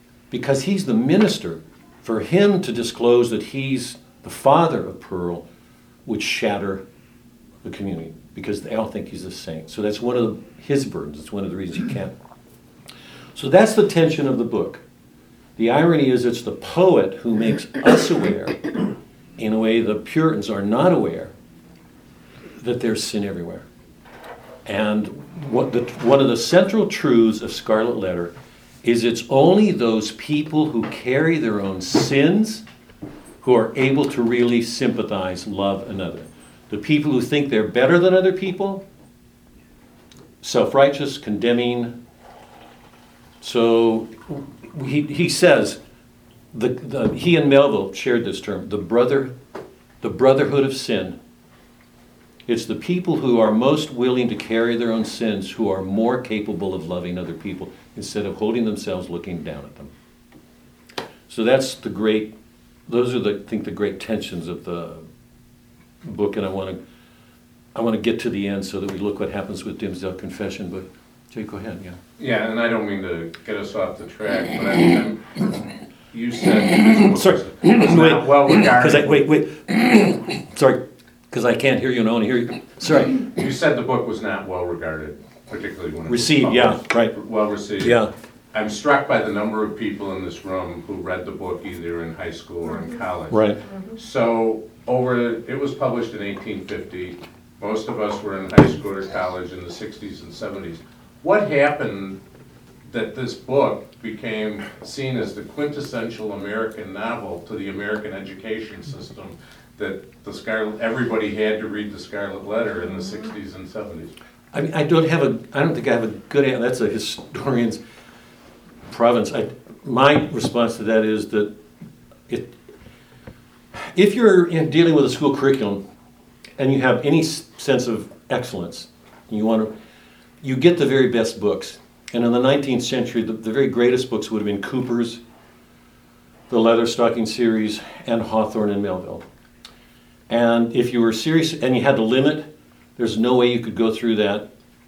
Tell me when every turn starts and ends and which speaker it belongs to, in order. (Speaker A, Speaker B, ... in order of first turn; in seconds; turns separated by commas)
Speaker A: 0.3-5.5, Speaker A: 6.1-6.8, Speaker A: 7.6-12.1, Speaker A: 13.4-14.8, Speaker A: 15.6-18.8, Speaker A: 19.4-21.3, Speaker A: 22.6-23.6, Speaker A: 24.7-28.3, Speaker A: 28.8-32.6, Speaker A: 33.4-38.8, Speaker A: 40.4-42.0, Speaker A: 43.4-45.8, Speaker A: 46.5-49.3, Speaker A: 50.0-51.2, Speaker A: 52.5-59.9, Speaker A: 61.3-62.3, Speaker A: 62.9-65.1, Speaker A: 66.0-66.8, Speaker A: 67.8-72.0, Speaker B: 72.2-79.2, Speaker A: 77.1-83.3, Speaker B: 83.3-88.0, Speaker A: 86.1-87.2, Speaker A: 87.8-88.1, Speaker B: 88.5-102.2, Speaker A: 93.3-93.6, Speaker B: 102.9-114.1, Speaker A: 114.5-117.8, Speaker A: 118.9-121.5, Speaker A: 122.3-122.5, Speaker A: 123.8-125.8, Speaker A: 126.6-129.7, Speaker A: 130.4-135.2, Speaker A: 136.5-139.2, Speaker A: 140.3-144.5